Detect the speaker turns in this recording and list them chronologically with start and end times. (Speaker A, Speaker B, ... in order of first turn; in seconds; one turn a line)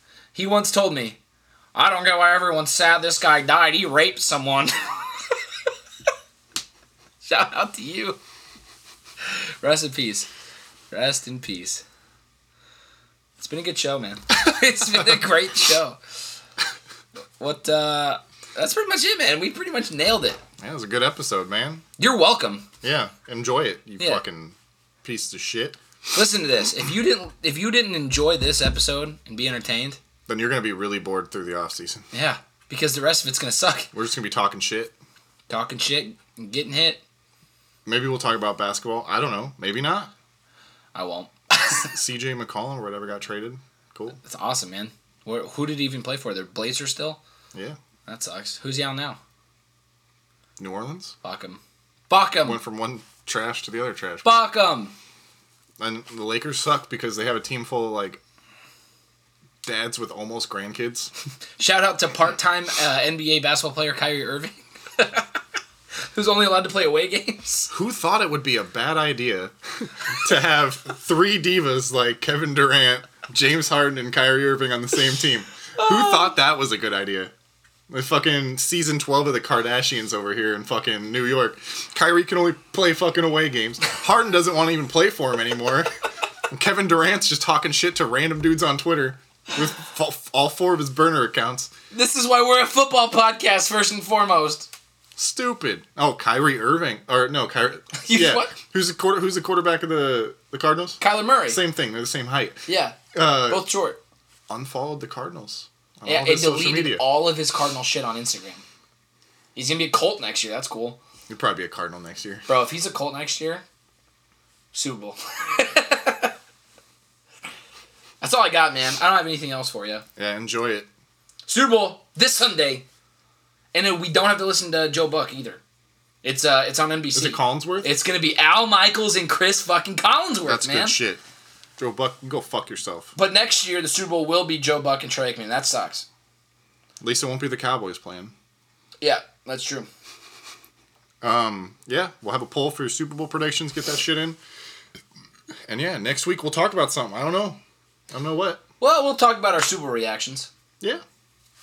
Speaker A: 0.3-1.2
Speaker A: 1.7-5.3
Speaker A: 7.2-8.2
Speaker A: 9.2-10.3
Speaker A: 10.9-11.8
Speaker A: 13.4-16.0
Speaker A: 17.4-20.4
Speaker B: 20.6-21.8
Speaker A: 22.0-22.6
Speaker B: 22.8-25.8
Speaker A: 26.1-30.0
Speaker B: 30.3-32.0
Speaker A: 32.1-33.9
Speaker B: 33.9-34.9
Speaker A: 35.5-37.0
Speaker B: 37.9-40.1
Speaker A: 40.9-41.9
Speaker B: 41.8-44.2
Speaker A: 44.2-47.2
Speaker A: 48.0-49.2
Speaker B: 50.6-51.1
Speaker A: 51.2-52.6
Speaker B: 52.4-54.5
Speaker A: 54.2-54.9
Speaker B: 55.8-58.2
Speaker B: 59.6-61.1
Speaker A: 61.6-65.3
Speaker A: 66.1-67.7
Speaker B: 67.7-77.3
Speaker B: 77.9-85.9
Speaker B: 86.5-91.7
Speaker A: 91.9-94.7
Speaker B: 95.2-102.6
Speaker A: 97.9-98.5
Speaker A: 101.0-101.6
Speaker A: 102.7-104.0
Speaker B: 103.1-103.6
Speaker B: 104.5-107.0
Speaker A: 106.0-108.6
Speaker A: 109.5-111.0
Speaker B: 111.3-112.5
Speaker A: 112.5-113.6
Speaker A: 114.7-116.3
Speaker A: 118.2-120.0
Speaker B: 120.2-120.9
Speaker A: 121.5-122.8
Speaker A: 123.7-125.6
Speaker A: 126.2-131.0
Speaker B: 127.1-127.9
Speaker B: 130.4-131.2
Speaker B: 131.8-133.1
Speaker A: 133.2-136.1
Speaker B: 137.0-138.3
Speaker A: 139.0-139.9
Speaker B: 141.2-144.4
Speaker B: 145.7-147.6
Speaker B: 148.1-148.6
Speaker A: 148.8-150.5